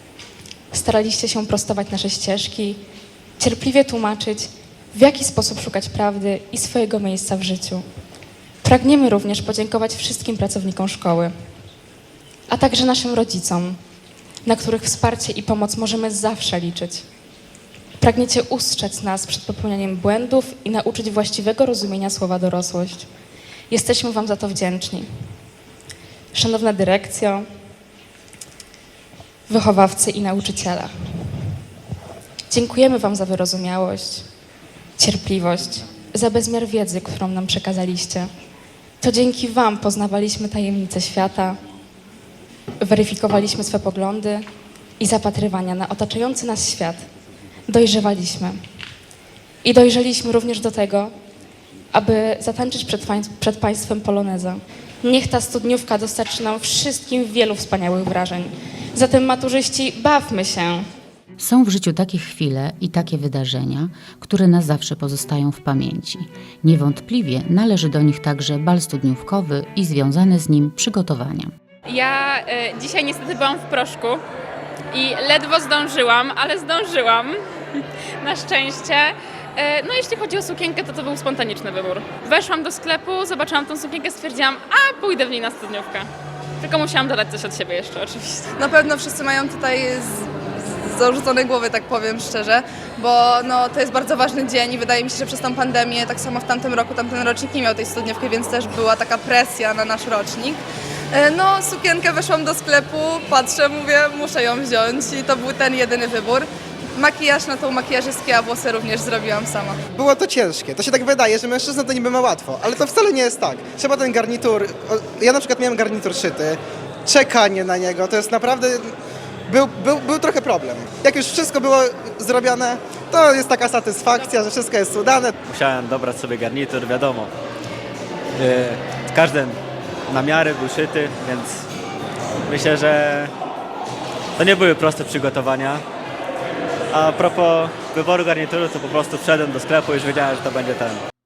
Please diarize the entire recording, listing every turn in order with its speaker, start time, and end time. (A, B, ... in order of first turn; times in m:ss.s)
0:00.7-0:02.8 A
0:03.4-0:07.8 A
0:08.6-0:11.3 A
0:12.5-0:13.8 A
0:14.4-0:17.0 A
0:18.0-0:23.1 A
0:23.7-0:25.1 A
0:26.3-0:27.4 A
0:29.5-0:30.9 A
0:32.5-0:34.2 A
0:35.0-0:38.3 A
0:39.0-0:41.6 A
0:42.8-0:44.4 A
0:45.0-0:47.0 A
0:47.7-0:48.6 A
0:49.6-0:51.1 A
0:51.9-1:00.9 A
1:01.4-1:11.5 B
1:11.9-1:14.2 C
1:14.9-1:26.1 C
1:26.6-1:28.5 C
1:28.6-1:49.8 D
1:49.9-1:56.6 E
1:57.1-1:58.8 E
1:59.5-2:05.3 E
2:05.4-2:07.3 F
2:08.4-2:11.6 F
2:12.5-2:13.3 F
2:14.4-2:15.8 F
2:16.9-2:21.0 F